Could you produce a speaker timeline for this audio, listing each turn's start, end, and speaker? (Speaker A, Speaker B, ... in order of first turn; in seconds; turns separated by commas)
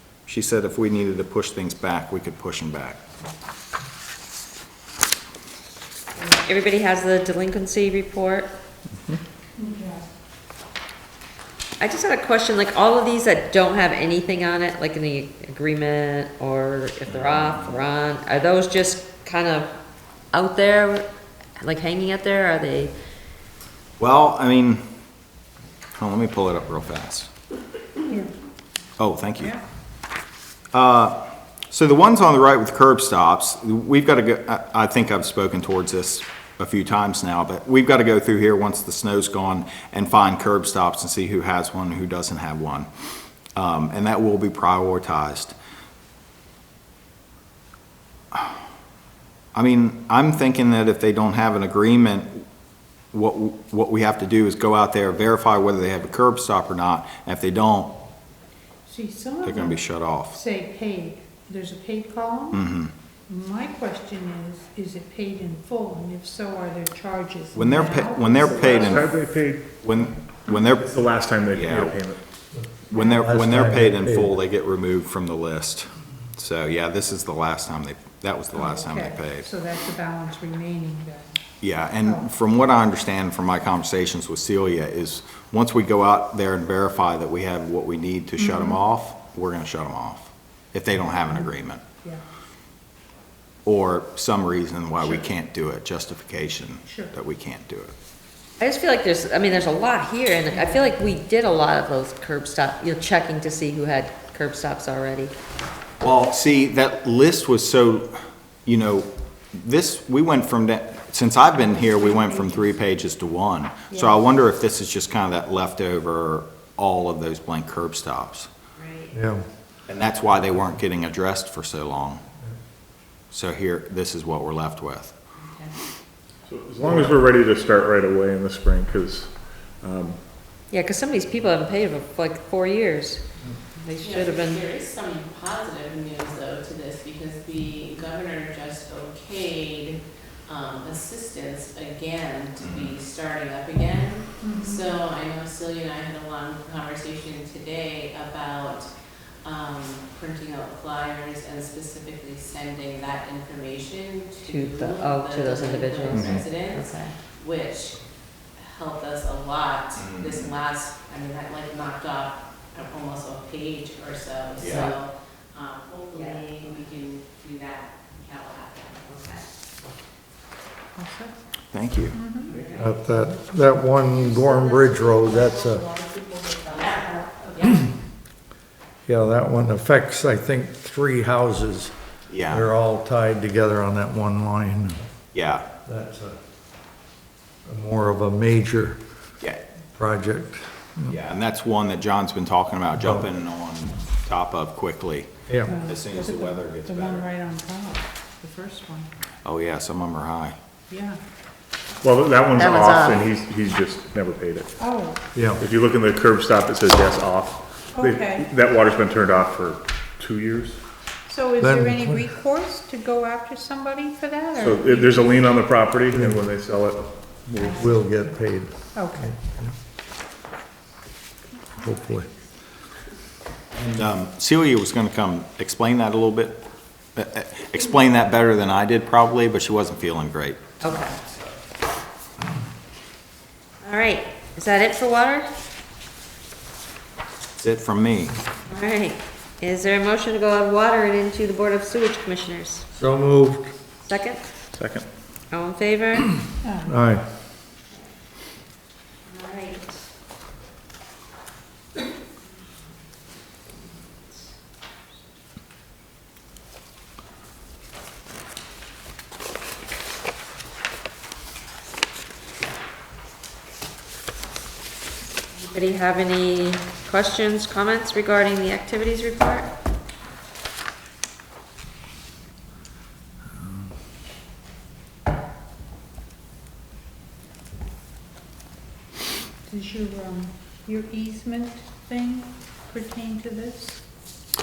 Speaker A: 0.2-3.0, Speaker B: 6.2-8.5, Speaker C: 9.6-10.1, Speaker B: 11.8-19.7, Speaker A: 17.1-17.7, Speaker B: 20.3-21.1, Speaker B: 21.6-22.9, Speaker A: 24.0-24.8, Speaker A: 26.0-27.3, Speaker A: 29.0-29.6, Speaker A: 30.7-42.9, Speaker A: 43.5-45.5, Speaker A: 48.3-48.6, Speaker A: 49.5-52.5, Speaker A: 53.1-57.9, Speaker C: 58.9-62.6, Speaker A: 59.4-60.4, Speaker A: 62.5-62.9, Speaker C: 63.3-69.2, Speaker A: 67.5-69.1, Speaker D: 68.5-69.7, Speaker A: 69.8-72.0, Speaker D: 70.9-72.2, Speaker E: 72.5-74.3, Speaker A: 72.9-79.5, Speaker C: 78.5-81.4, Speaker A: 81.6-91.8, Speaker C: 82.0-82.3, Speaker C: 88.4-88.7, Speaker A: 93.6-97.9, Speaker C: 96.8-97.1, Speaker B: 98.6-105.3, Speaker C: 100.5-100.9, Speaker A: 106.0-108.1, Speaker A: 108.7-118.5, Speaker B: 118.8-119.2, Speaker E: 119.1-119.4, Speaker A: 119.9-122.2, Speaker A: 123.3-125.1, Speaker B: 125.4-125.7, Speaker D: 126.5-130.2, Speaker B: 130.7-134.6, Speaker F: 134.0-148.9, Speaker A: 142.6-142.9, Speaker C: 144.4-144.9, Speaker F: 149.4-158.0, Speaker B: 154.4-157.1, Speaker D: 156.1-156.4, Speaker F: 158.6-169.5, Speaker A: 160.0-160.5, Speaker A: 164.6-164.9, Speaker B: 164.6-165.0, Speaker B: 166.1-166.4, Speaker C: 170.9-171.3, Speaker A: 171.7-172.2, Speaker C: 172.1-172.6, Speaker F: 172.4-173.1, Speaker E: 172.7-175.8, Speaker C: 175.1-177.4, Speaker F: 176.7-177.9, Speaker E: 179.1-181.9, Speaker A: 182.3-182.7, Speaker E: 182.5-185.1, Speaker A: 185.3-185.7, Speaker E: 185.8-186.3, Speaker E: 187.6-189.0, Speaker E: 189.9-191.2, Speaker A: 191.1-197.3, Speaker E: 195.5-195.8, Speaker C: 195.7-199.1, Speaker A: 199.4-200.6, Speaker C: 200.9-201.2, Speaker D: 202.0-204.7, Speaker C: 204.8-205.2, Speaker E: 205.3-205.6, Speaker D: 205.6-210.8, Speaker C: 207.9-208.5, Speaker C: 211.3-215.4, Speaker E: 211.6-212.3, Speaker D: 214.6-217.9, Speaker E: 216.1-216.4, Speaker C: 217.6-218.1, Speaker E: 217.6-219.7, Speaker C: 218.9-219.3, Speaker E: 221.8-222.3, Speaker A: 223.8-226.6, Speaker A: 227.1-230.9, Speaker B: 230.8-231.2, Speaker B: 233.8-235.5, Speaker A: 237.6-238.3, Speaker B: 238.7-242.9, Speaker E: 242.9-243.7, Speaker B: 244.0-244.5, Speaker B: 245.5-246.4, Speaker C: 246.6-247.0, Speaker E: 246.8-247.3, Speaker B: 249.2-250.0, Speaker B: 253.7-254.4, Speaker B: 265.6-269.7, Speaker C: 279.6-284.0